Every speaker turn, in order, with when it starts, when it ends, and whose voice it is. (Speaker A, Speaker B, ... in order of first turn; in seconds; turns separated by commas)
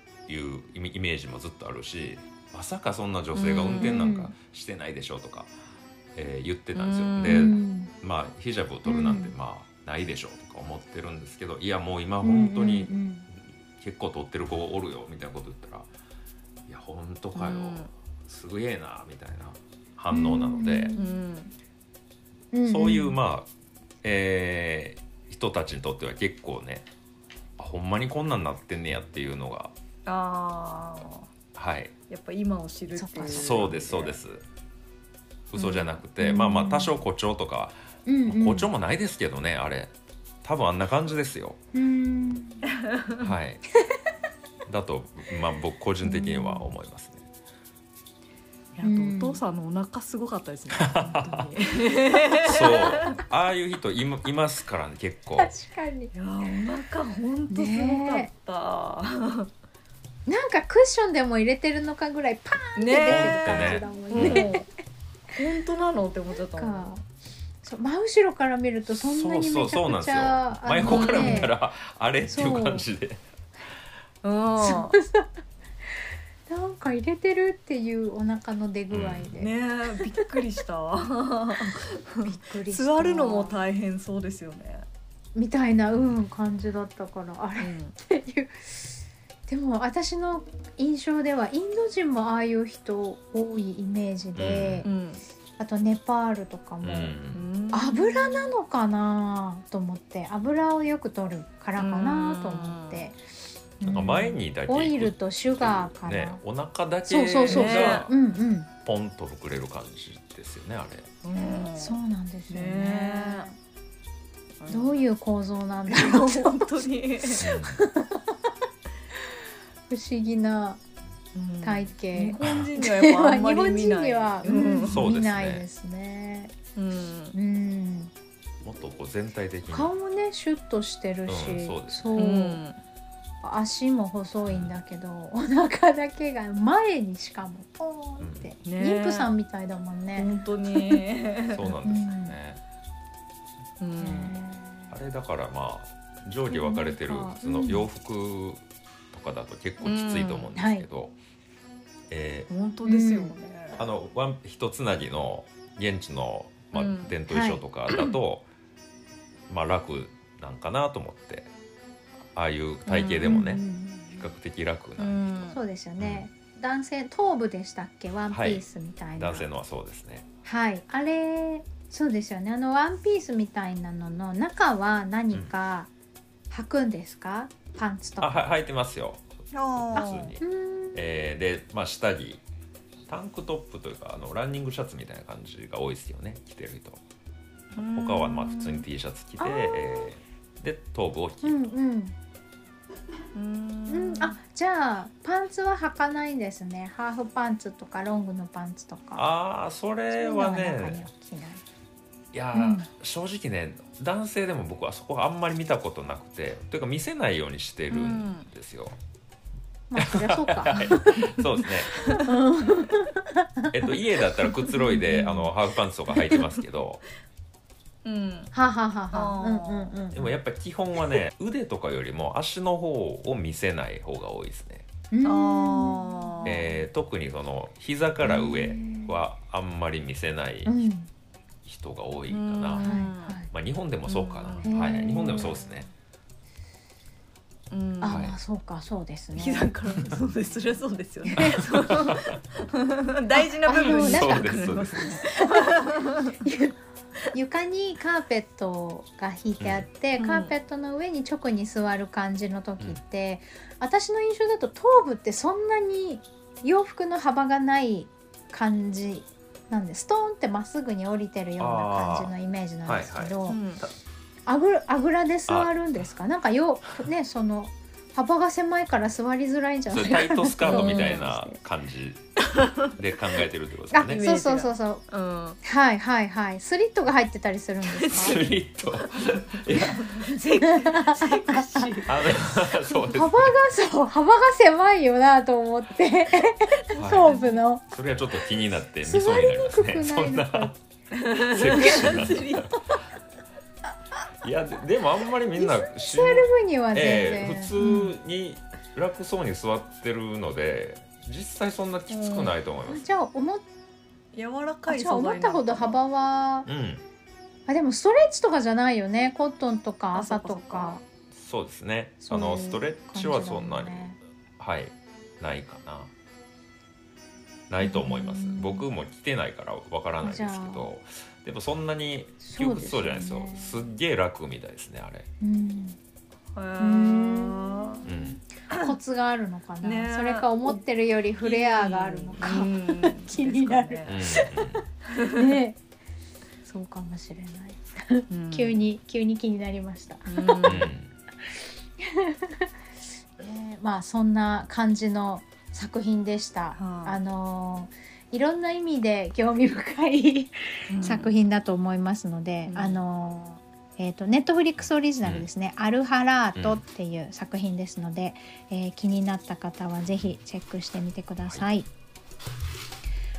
Speaker A: 0.3-5.5, Speaker B: 3.3-4.1, Speaker C: 3.8-4.3, Speaker A: 6.1-15.9, Speaker B: 6.7-7.5, Speaker C: 7.2-7.9, Speaker C: 8.8-9.3, Speaker C: 12.2-13.3, Speaker A: 16.7-20.9, Speaker B: 17.3-17.9, Speaker C: 20.1-21.2, Speaker B: 21.0-21.5, Speaker C: 22.5-23.2, Speaker A: 22.7-23.5, Speaker A: 24.0-26.9, Speaker A: 27.6-29.7, Speaker B: 30.1-31.3, Speaker A: 31.6-31.9, Speaker B: 32.1-34.1, Speaker C: 33.0-34.1, Speaker A: 33.3-34.4, Speaker A: 35.5-39.9, Speaker B: 35.5-36.0, Speaker C: 36.2-36.9, Speaker C: 38.0-38.7, Speaker A: 40.4-41.6, Speaker C: 41.7-42.6, Speaker B: 42.8-43.3, Speaker A: 43.2-43.6, Speaker A: 44.6-47.2, Speaker C: 46.0-46.7, Speaker B: 48.7-53.2, Speaker C: 48.8-49.4, Speaker A: 50.7-51.5, Speaker A: 52.4-55.5, Speaker C: 52.5-53.0, Speaker C: 55.4-56.6, Speaker B: 56.1-59.5, Speaker C: 57.5-58.3, Speaker C: 60.3-64.6, Speaker B: 62.8-64.7, Speaker A: 63.0-64.5, Speaker B: 65.3-66.9, Speaker C: 66.5-67.0, Speaker C: 67.6-71.5, Speaker A: 69.0-73.2, Speaker B: 70.8-71.5, Speaker C: 72.3-72.8, Speaker B: 74.2-75.0, Speaker C: 74.6-75.3, Speaker C: 75.9-80.4, Speaker A: 78.9-79.3, Speaker B: 79.3-84.8, Speaker C: 81.5-83.6, Speaker C: 85.3-94.9, Speaker B: 87.6-88.0, Speaker A: 94.3-94.8, Speaker B: 94.8-95.2, Speaker C: 95.6-97.2, Speaker A: 96.8-97.5, Speaker B: 97.3-98.5, Speaker C: 97.7-103.2, Speaker B: 101.8-103.1, Speaker C: 103.8-106.4, Speaker A: 103.8-108.1, Speaker C: 107.1-108.7, Speaker B: 107.5-108.1, Speaker A: 108.8-111.1, Speaker B: 111.2-112.0, Speaker C: 111.8-113.6, Speaker B: 112.5-113.5, Speaker B: 114.6-115.0, Speaker C: 114.7-118.3, Speaker B: 115.9-117.4, Speaker A: 117.4-117.8, Speaker C: 119.9-120.8, Speaker B: 121.3-125.0, Speaker C: 121.6-126.5, Speaker A: 124.9-125.6, Speaker B: 126.8-127.3, Speaker C: 127.3-128.1, Speaker A: 128.6-129.9, Speaker C: 129.7-132.6, Speaker A: 131.3-132.2, Speaker B: 132.2-132.8, Speaker C: 133.4-141.0, Speaker A: 134.4-134.7, Speaker A: 138.2-138.5, Speaker B: 138.6-139.3, Speaker B: 140.2-141.7, Speaker A: 141.5-142.6, Speaker C: 141.8-142.3, Speaker B: 143.8-144.4, Speaker C: 144.0-144.9, Speaker A: 144.9-151.2, Speaker C: 146.5-147.9, Speaker B: 149.8-150.5, Speaker C: 150.6-150.8, Speaker A: 152.1-152.5, Speaker B: 152.5-153.9, Speaker C: 152.8-153.3, Speaker A: 153.8-158.5, Speaker B: 156.7-157.1, Speaker C: 157.3-157.6, Speaker B: 157.9-158.1, Speaker A: 159.5-161.5, Speaker A: 162.3-166.2, Speaker C: 162.8-164.2, Speaker B: 165.0-165.6, Speaker C: 165.5-169.5, Speaker A: 168.3-168.6, Speaker A: 169.2-170.2, Speaker C: 170.4-175.9, Speaker C: 176.5-178.4, Speaker A: 178.2-180.4, Speaker B: 179.5-180.3, Speaker C: 179.9-181.0, Speaker A: 180.9-182.4, Speaker A: 183.1-187.0, Speaker B: 187.7-188.8, Speaker A: 187.8-191.6, Speaker C: 189.4-190.1, Speaker C: 191.4-192.1, Speaker B: 193.3-194.4, Speaker C: 193.9-199.2, Speaker A: 199.1-201.0, Speaker C: 200.1-201.6, Speaker A: 202.3-209.0, Speaker C: 202.5-202.9, Speaker B: 207.9-208.5, Speaker C: 209.9-211.3, Speaker A: 210.0-212.2, Speaker B: 212.0-212.3, Speaker C: 212.2-213.9, Speaker A: 213.7-217.0, Speaker C: 214.5-215.5, Speaker B: 218.0-218.5, Speaker C: 218.5-220.3, Speaker B: 219.1-220.0, Speaker A: 220.1-224.8, Speaker C: 225.1-226.7, Speaker B: 225.2-226.7, Speaker A: 226.4-230.7, Speaker C: 228.2-229.2, Speaker C: 230.6-231.1, Speaker A: 231.6-232.8, Speaker B: 232.3-233.3, Speaker C: 232.8-233.5, Speaker A: 233.5-235.9, Speaker B: 234.1-234.8, Speaker C: 234.6-235.7, Speaker B: 237.7-238.3, Speaker C: 238.0-239.7, Speaker A: 238.1-238.3, Speaker B: 239.3-246.4, Speaker C: 241.3-241.6, Speaker A: 241.4-242.4, Speaker C: 243.7-244.5, Speaker A: 243.8-245.2, Speaker C: 245.4-246.8, Speaker C: 247.3-263.6, Speaker A: 249.6-249.9, Speaker B: 250.2-250.5, Speaker A: 261.6-262.3, Speaker A: 262.9-263.9, Speaker B: 263.5-263.8, Speaker C: 264.5-271.6, Speaker A: 265.5-265.7, Speaker A: 269.9-272.3, Speaker B: 270.6-271.2, Speaker B: 272.6-272.9, Speaker A: 272.9-274.2, Speaker C: 273.9-275.0, Speaker B: 274.0-275.6, Speaker C: 275.6-278.4, Speaker B: 278.0-282.3, Speaker A: 278.1-280.2, Speaker C: 280.6-282.0, Speaker A: 282.1-283.6, Speaker C: 282.9-287.8, Speaker A: 286.9-287.3, Speaker B: 287.2-287.6, Speaker A: 287.9-290.7, Speaker C: 289.0-290.8, Speaker B: 291.1-293.0, Speaker A: 291.5-292.8, Speaker A: 294.4-303.0, Speaker C: 295.5-298.1, Speaker B: 302.1-302.6, Speaker C: 302.9-303.6, Speaker B: 304.3-306.0, Speaker C: 304.9-306.7, Speaker A: 306.6-307.0, Speaker C: 307.7-311.0, Speaker B: 310.1-311.0, Speaker A: 311.3-316.1, Speaker C: 312.2-314.2, Speaker A: 317.7-325.3, Speaker C: 317.8-318.9, Speaker C: 320.2-320.9, Speaker C: 322.4-323.9, Speaker C: 325.4-326.0, Speaker B: 326.5-328.0, Speaker C: 326.8-334.8, Speaker A: 328.0-328.4, Speaker B: 329.8-330.8, Speaker B: 331.4-334.2, Speaker A: 334.1-334.8, Speaker B: 335.1-335.6, Speaker C: 335.3-335.8, Speaker C: 336.6-340.9, Speaker B: 338.3-338.7, Speaker B: 340.2-340.9, Speaker A: 340.6-341.1, Speaker C: 341.5-342.7, Speaker C: 343.4-361.9, Speaker B: 346.8-347.2, Speaker B: 350.9-351.3, Speaker B: 352.7-353.0, Speaker A: 356.6-356.8